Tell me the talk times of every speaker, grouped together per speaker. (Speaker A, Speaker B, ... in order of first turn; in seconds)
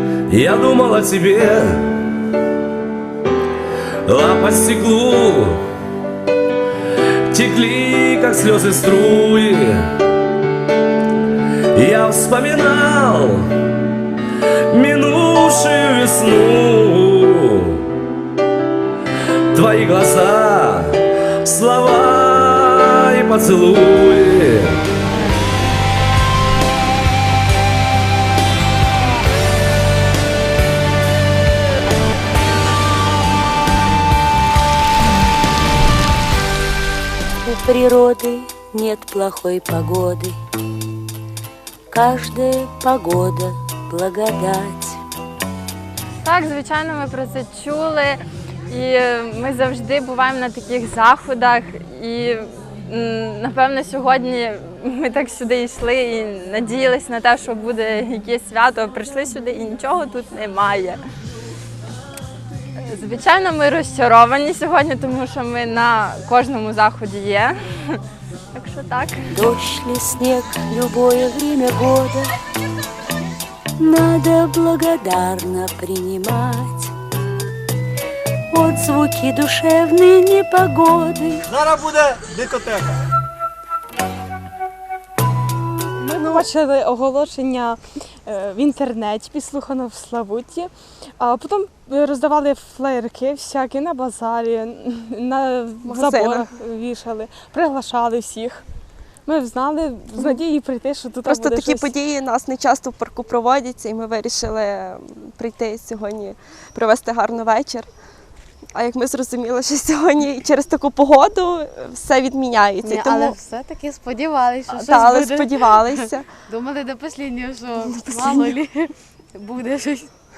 Speaker A: 0.3-1.8, 4.1-5.6, 7.3-9.9, 11.7-13.5, 14.7-17.8, 19.5-24.8
Speaker B: 37.4-40.4, 41.9-45.0, 69.3-72.3, 73.8-76.9, 78.5-81.5
Speaker C: 46.2-61.0, 62.9-68.0, 68.5-69.3
Speaker D: 86.0-98.6, 99.2-101.9
Speaker E: 86.1-86.4, 95.8-96.5, 101.2-107.9, 108.7-113.4, 114.7-116.3, 117.8-118.6
Speaker F: 112.8-120.1